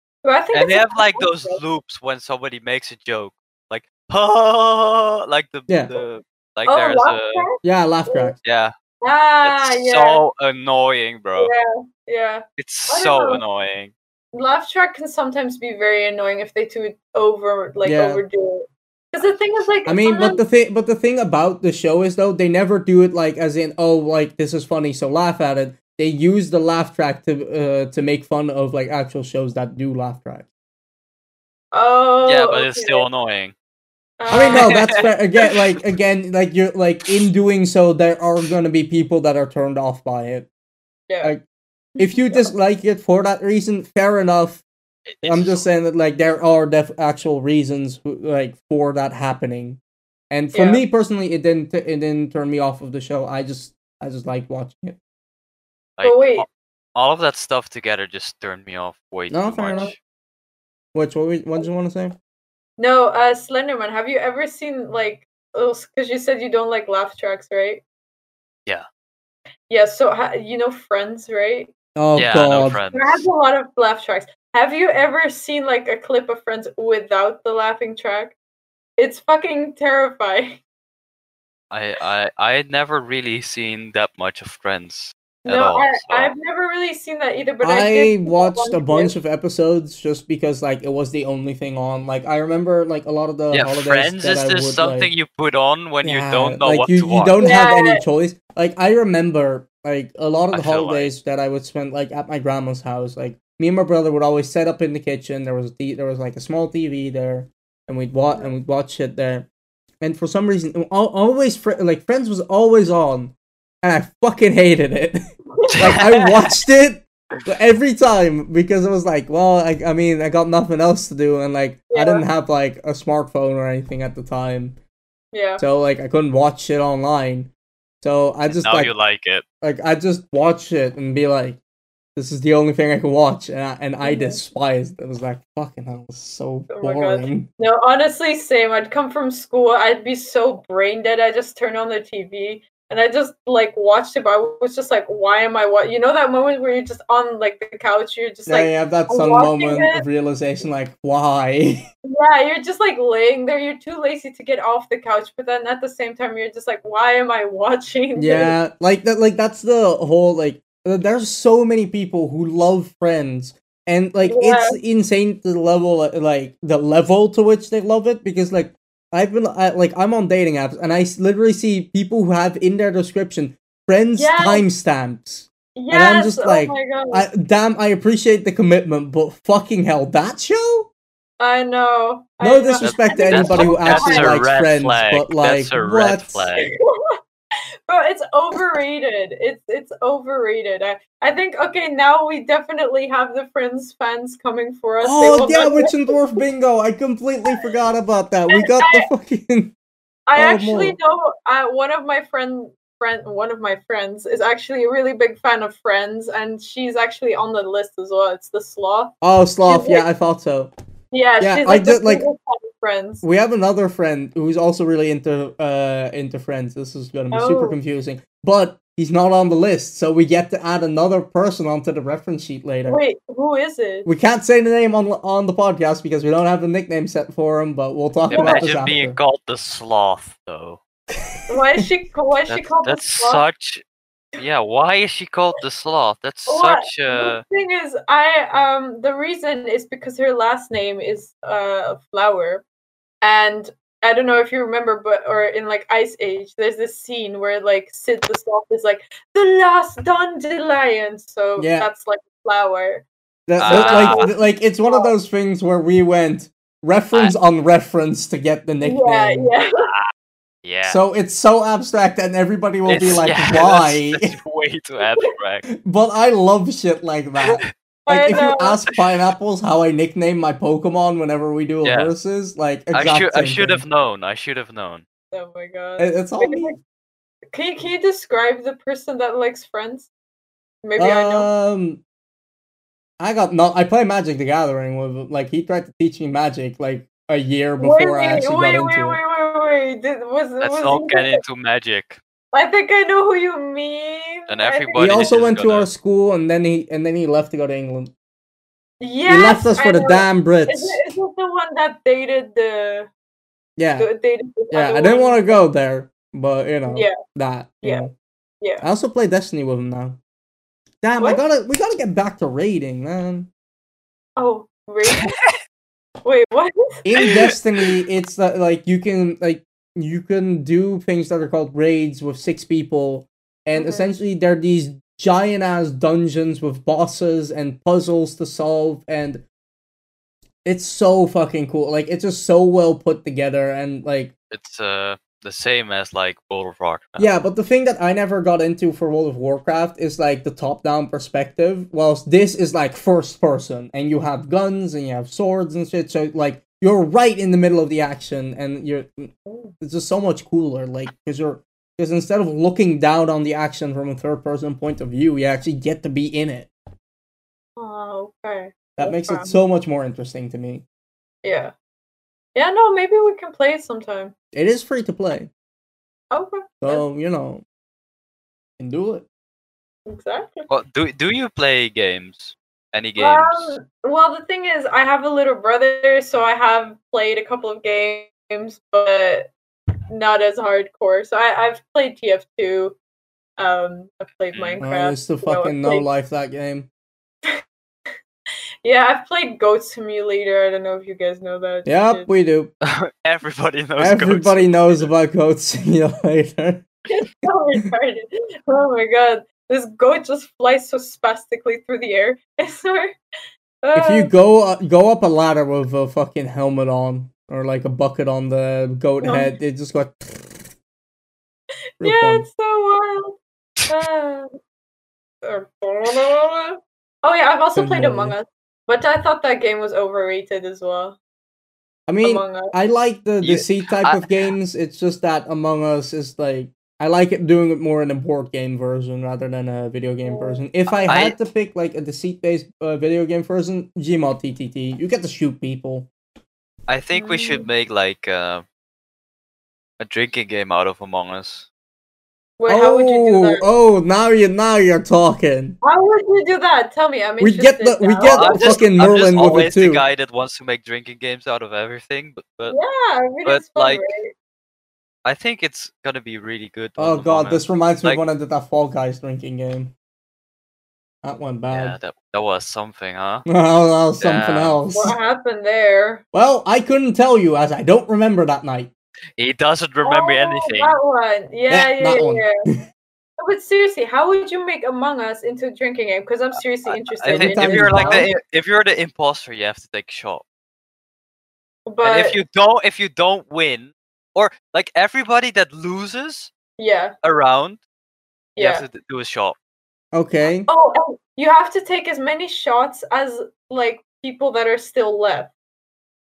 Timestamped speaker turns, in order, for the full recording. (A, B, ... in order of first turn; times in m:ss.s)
0:00.2-0:01.6 A
0:00.5-0:07.5 B
0:05.7-0:05.9 C
0:06.7-0:08.4 A
0:07.6-0:08.4 C
0:08.4-0:08.7 B
0:09.0-0:10.2 A
0:09.4-0:11.5 B
0:11.4-0:13.4 A
0:12.6-0:13.9 B
0:14.3-0:20.4 A
0:17.8-0:18.2 C
0:19.2-0:19.7 B
0:19.9-0:30.5 C
0:31.7-0:33.1 A
0:32.3-0:33.6 B
0:34.2-0:34.9 A
0:34.3-0:40.5 C
0:34.5-0:35.1 B
0:42.0-0:42.5 A
0:42.0-0:44.6 C
0:45.1-0:45.7 B
0:45.2-0:55.0 C
0:50.5-0:50.8 A
0:56.0-1:00.0 B
0:56.0-0:56.4 A
0:59.3-0:59.9 C
1:00.9-1:02.2 C
1:02.8-1:07.8 A
1:09.7-1:11.7 A
1:12.0-1:12.8 C
1:12.2-1:13.3 B
1:12.9-1:18.4 A
1:19.0-1:20.6 A
1:21.7-1:26.3 B
1:25.4-1:29.2 A
1:27.6-1:35.1 C
1:33.5-1:37.4 B
1:36.0-1:49.5 C
1:37.4-1:38.0 A
1:40.5-1:41.1 B
1:48.3-1:48.5 A
1:50.0-1:55.2 C
1:55.5-1:56.0 A
1:55.7-1:56.3 B
1:55.8-2:04.8 C
2:01.9-2:02.2 A
2:05.3-2:05.6 A
2:05.6-2:08.9 C
2:08.5-2:09.4 B
2:09.6-2:11.6 C
2:12.2-2:17.5 C
2:14.0-2:14.4 A
2:16.7-2:30.0 A
2:28.5-2:31.8 C
2:32.0-2:38.6 A
2:38.2-3:00.9 C
2:44.2-2:44.8 A
2:54.2-2:54.7 A
2:55.8-2:57.3 A
3:01.4-3:04.4 A
3:02.4-3:06.5 C
3:02.8-3:06.7 B
3:06.6-3:07.2 A
3:07.9-3:16.4 A
3:15.0-3:19.7 C
3:18.5-3:19.1 A
3:20.3-3:30.1 A
3:20.4-3:21.0 C
3:29.2-3:30.7 C
3:31.1-3:33.2 A
3:31.4-3:32.3 C
3:33.2-3:43.0 C
3:37.3-3:37.8 A
3:42.9-3:44.1 A
3:44.1-3:49.2 C
3:48.3-3:50.8 B
3:48.3-3:48.7 A
3:51.1-3:51.9 C
3:51.5-3:53.4 A
3:52.5-3:53.8 B
3:54.4-3:57.4 B
3:56.5-4:02.6 A
4:03.2-4:13.1 A
4:11.6-4:11.9 C
4:13.5-4:19.5 C
4:13.6-4:14.3 B
4:13.6-4:15.1 A
4:18.8-4:19.9 A
4:19.8-4:20.1 B
4:20.6-4:21.0 B
4:20.9-4:24.4 C
4:22.9-4:25.6 B
4:25.7-4:33.8 C
4:28.1-4:28.8 A
4:31.8-4:32.1 B
4:32.9-4:35.0 B
4:35.3-4:36.8 A
4:36.0-4:36.8 C
4:37.5-4:40.1 A
4:40.8-4:41.5 A
4:41.0-4:42.0 C
4:43.2-4:49.2 C
4:47.8-4:51.4 A
4:50.6-4:52.2 B
4:52.5-4:55.2 A
4:54.5-4:55.9 B
4:55.0-4:58.1 C
4:59.0-5:03.1 A
4:59.3-5:01.0 C
5:03.8-5:04.1 C
5:04.0-5:05.6 A
5:04.7-5:08.1 C
5:06.9-5:07.2 A
5:07.8-5:08.1 A
5:08.8-5:10.2 C
5:11.0-5:13.5 C
5:14.4-5:15.4 A
5:15.1-5:15.6 B
5:16.2-5:17.1 A
5:17.0-5:29.4 C
5:23.8-5:24.1 A
5:30.6-5:34.3 C
5:34.5-5:37.3 B
5:37.2-5:56.7 C
5:49.5-5:49.8 A
5:57.8-5:59.6 A
5:59.0-6:00.8 C
6:01.4-6:01.7 A
6:02.6-6:04.3 A
6:04.5-6:05.5 C
6:06.3-6:07.0 A
6:06.8-6:07.6 C
6:08.8-6:09.2 C
6:10.1-6:10.7 A
6:10.7-6:13.8 B
6:13.2-6:19.5 A
6:20.1-6:23.0 A
6:23.6-6:26.1 A
6:24.5-6:24.8 B
6:24.8-6:26.9 C
6:28.8-6:32.3 A
6:31.9-6:32.7 C
6:32.8-6:35.1 B
6:34.0-6:36.9 C
6:37.1-6:43.2 A
6:43.8-6:44.3 A
6:44.0-6:50.7 C
6:49.2-6:49.6 A
6:52.0-6:52.5 C
6:52.0-6:54.6 A
6:55.4-7:01.2 A
6:57.8-6:58.4 C
7:02.1-7:16.1 C
7:02.2-7:02.7 A
7:03.4-7:04.3 B
7:10.2-7:11.2 A
7:11.1-7:11.4 B
7:16.9-7:18.6 B
7:17.2-7:17.7 A
7:20.0-7:21.7 B
7:22.6-7:23.6 A
7:22.7-7:25.8 C
7:25.8-7:28.8 A
7:27.4-7:30.0 C
7:28.2-7:32.8 B
7:32.7-7:34.3 A
7:33.4-7:34.0 B
7:35.2-7:38.2 B
7:37.0-7:39.9 C
7:41.2-7:42.0 C
7:41.7-7:43.5 B
7:43.5-7:45.2 C
7:44.2-7:44.8 B
7:44.9-7:46.2 A
7:46.3-7:48.9 C
7:49.4-7:51.0 B
7:50.0-7:52.5 A
7:51.7-7:52.8 C
7:53.4-7:58.3 A
7:56.5-8:00.4 B
7:57.3-7:58.3 C
8:01.9-8:02.4 A
8:02.0-8:06.5 B
8:06.8-8:07.1 A
8:07.2-8:07.8 B
8:08.6-8:08.8 A
8:08.6-8:09.6 B
8:10.1-8:10.7 C
8:10.4-8:15.5 A